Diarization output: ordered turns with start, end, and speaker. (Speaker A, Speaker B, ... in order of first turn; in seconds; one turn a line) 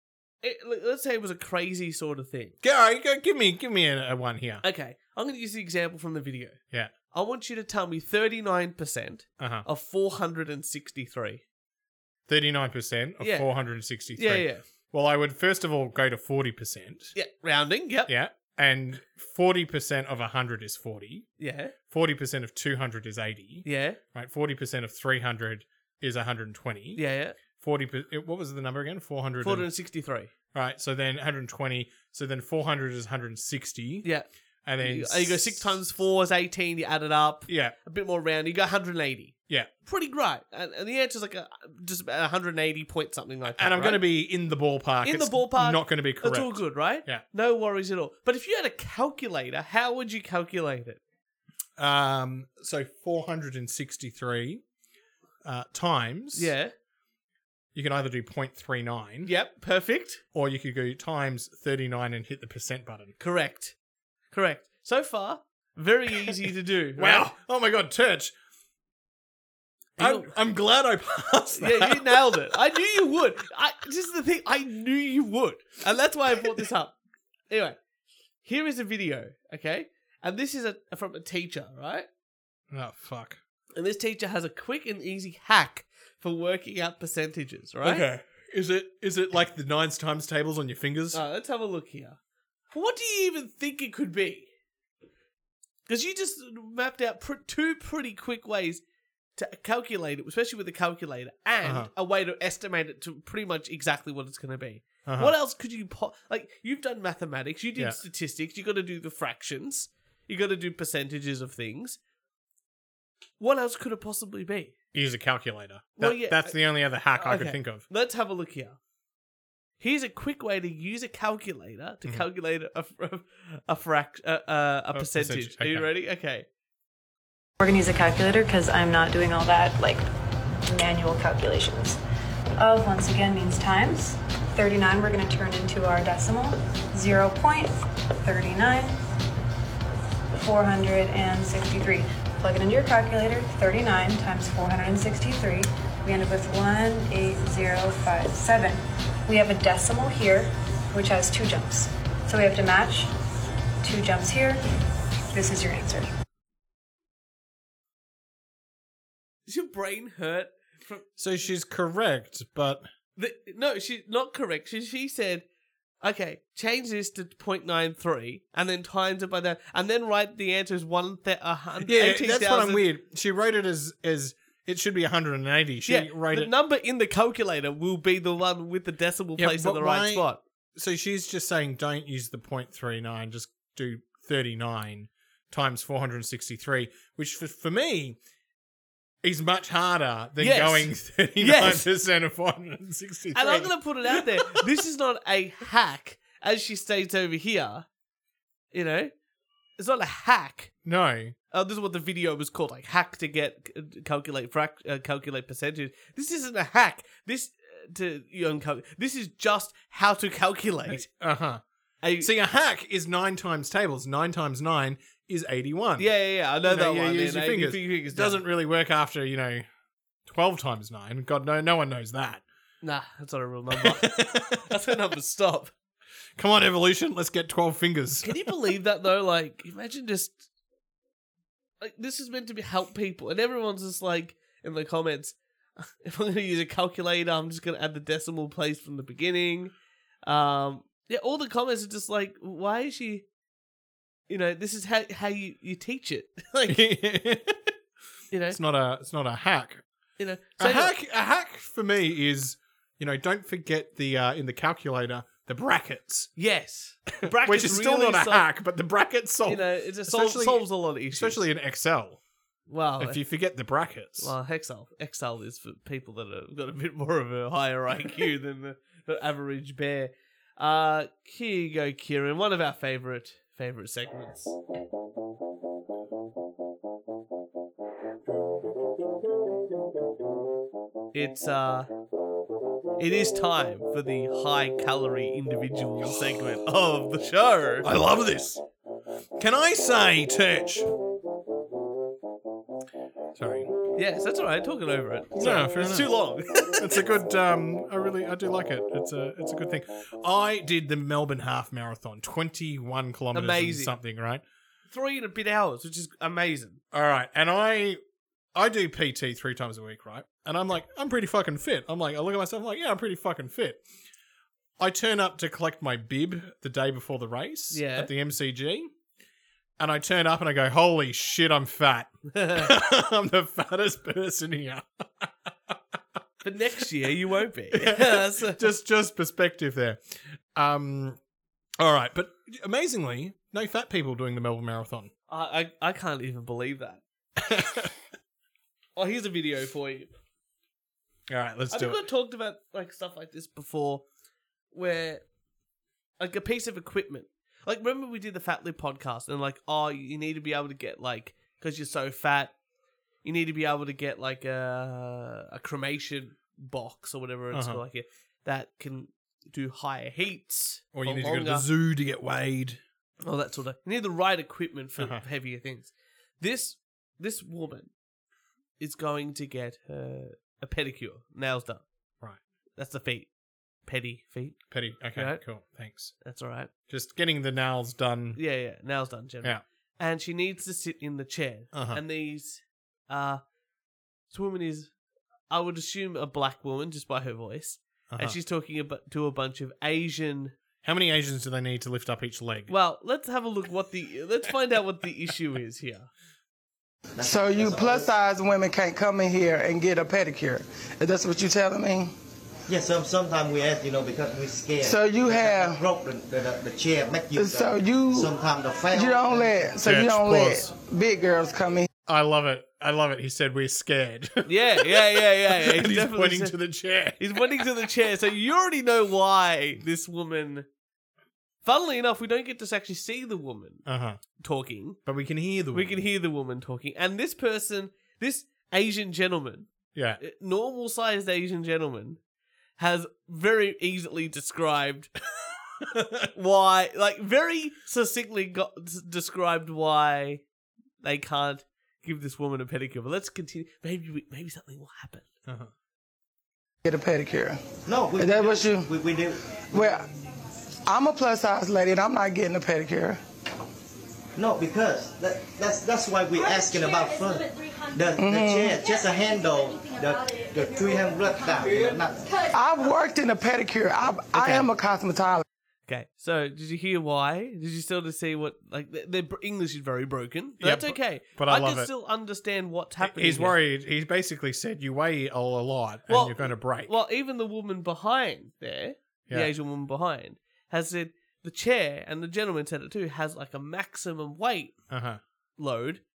Speaker A: 0.4-2.5
Speaker B: 2.6-4.6
Speaker A: 4.6-6.6
Speaker A: 7.1-11.4
Speaker B: 9.4-9.7
Speaker B: 12.3-17.1
Speaker A: 13.2-13.5
Speaker A: 14.1-14.6
Speaker A: 17.1-18.1
Speaker B: 18.1-21.3
Speaker A: 21.4-21.7
Speaker B: 21.9-27.0
Speaker A: 23.6-24.0
Speaker A: 26.9-27.4
Speaker B: 27.5-29.7
Speaker A: 29.4-30.3
Speaker B: 30.5-34.1
Speaker B: 34.6-35.7
Speaker A: 34.8-39.3
Speaker B: 37.5-37.7
Speaker A: 39.9-44.0
Speaker B: 43.5-47.2
Speaker A: 45.0-51.0
Speaker B: 51.8-54.6
Speaker B: 55.4-56.5
Speaker A: 56.3-56.7
Speaker B: 57.7-59.3
Speaker A: 59.2-60.2
Speaker B: 60.3-63.1
Speaker A: 63.2-63.7
Speaker A: 64.3-67.3
Speaker B: 67.0-68.3
Speaker A: 70.0-70.3
Speaker B: 70.0-72.4
Speaker A: 71.5-76.9
Speaker A: 77.5-77.8
Speaker A: 78.4-82.1
Speaker B: 82.7-83.4
Speaker A: 83.8-88.1
Speaker B: 87.8-91.2
Speaker A: 91.1-92.2
Speaker A: 92.7-94.5
Speaker A: 95.9-98.8
Speaker A: 99.3-112.0
Speaker B: 101.6-101.9
Speaker B: 105.0-105.3
Speaker A: 113.4-114.7
Speaker B: 114.9-117.8
Speaker A: 116.0-118.8
Speaker A: 119.8-126.5
Speaker B: 124.9-125.9
Speaker C: 127.6-130.1
Speaker C: 130.6-132.0
Speaker C: 132.6-139.0
Speaker C: 140.3-153.1
Speaker C: 153.8-154.6
Speaker C: 155.3-156.1
Speaker A: 159.5-161.1
Speaker B: 161.2-162.8
Speaker A: 163.2-165.4
Speaker A: 166.0-172.9
Speaker B: 171.8-176.5
Speaker A: 175.8-180.4
Speaker B: 179.4-188.2
Speaker B: 189.2-194.7
Speaker A: 190.4-191.9
Speaker A: 193.3-197.8
Speaker A: 198.7-199.1
Speaker A: 199.8-200.7
Speaker B: 200.8-201.3
Speaker A: 201.5-211.1
Speaker B: 210.9-211.6
Speaker A: 212.0-212.3
Speaker B: 212.2-219.7
Speaker A: 216.0-218.4
Speaker B: 220.2-222.4
Speaker A: 222.8-225.7
Speaker B: 223.7-224.8
Speaker B: 226.4-228.5
Speaker A: 228.2-230.4
Speaker A: 231.8-239.7
Speaker A: 240.2-243.2
Speaker A: 244.3-246.8
Speaker B: 246.7-247.7
Speaker A: 248.3-248.6
Speaker B: 248.5-249.8
Speaker A: 250.2-250.9
Speaker B: 250.6-256.3
Speaker A: 256.4-258.4
Speaker B: 257.2-262.2
Speaker A: 259.4-261.4
Speaker A: 262.7-263.2
Speaker B: 263.0-264.3
Speaker A: 264.2-274.5
Speaker A: 281.1-281.9
Speaker A: 283.0-287.9
Speaker B: 286.0-286.4
Speaker B: 287.8-288.6
Speaker B: 289.4-290.9
Speaker B: 293.3-293.7
Speaker A: 293.9-297.0
Speaker B: 295.4-296.1
Speaker B: 296.8-304.4
Speaker A: 303.3-303.9
Speaker A: 304.9-306.8
Speaker B: 306.9-308.0
Speaker B: 308.5-313.8
Speaker B: 314.8-318.9
Speaker A: 317.7-318.1
Speaker B: 319.8-325.9
Speaker A: 322.3-322.7
Speaker A: 326.4-328.7
Speaker B: 327.7-331.2
Speaker B: 331.8-335.1
Speaker A: 335.3-337.0
Speaker B: 337.4-337.9
Speaker A: 338.9-340.1
Speaker B: 341.3-342.0
Speaker A: 341.7-344.0
Speaker A: 344.7-345.2
Speaker A: 346.2-352.5
Speaker A: 353.2-361.7
Speaker B: 357.5-357.8
Speaker B: 360.9-362.8
Speaker A: 363.2-367.9
Speaker B: 365.0-365.2
Speaker A: 368.8-371.8
Speaker A: 372.8-373.3
Speaker A: 373.9-374.6
Speaker B: 374.7-376.1
Speaker A: 375.1-375.4
Speaker A: 376.2-376.7
Speaker B: 376.9-378.4
Speaker A: 378.4-383.4
Speaker B: 381.7-382.0
Speaker A: 384.3-384.9
Speaker A: 385.5-390.5
Speaker B: 388.1-388.4
Speaker B: 390.8-392.7
Speaker A: 392.7-396.1
Speaker D: 397.2-398.1
Speaker E: 397.2-402.1
Speaker D: 402.7-409.7
Speaker E: 404.8-405.8
Speaker E: 407.3-408.3
Speaker E: 408.9-411.9
Speaker B: 409.8-410.7
Speaker B: 412.1-417.7
Speaker A: 414.4-416.5
Speaker A: 417.2-420.6
Speaker A: 421.6-423.8
Speaker B: 423.9-424.2
Speaker A: 424.4-425.0
Speaker B: 425.0-426.0
Speaker A: 425.7-429.7
Speaker B: 429.9-430.2
Speaker A: 430.2-432.2
Speaker A: 432.8-435.1
Speaker B: 435.8-436.2
Speaker A: 436.3-440.4
Speaker A: 441.0-445.2
Speaker B: 445.4-445.7
Speaker E: 446.8-447.6
Speaker D: 447.8-450.0
Speaker E: 448.2-448.9
Speaker E: 449.7-450.1
Speaker E: 450.9-453.2
Speaker D: 454.4-462.3
Speaker E: 458.2-458.8
Speaker E: 462.5-465.4
Speaker A: 464.4-464.7
Speaker A: 465.9-473.6
Speaker B: 470.6-471.9
Speaker B: 473.0-476.9
Speaker A: 476.1-484.7
Speaker B: 484.9-485.2
Speaker A: 485.6-486.0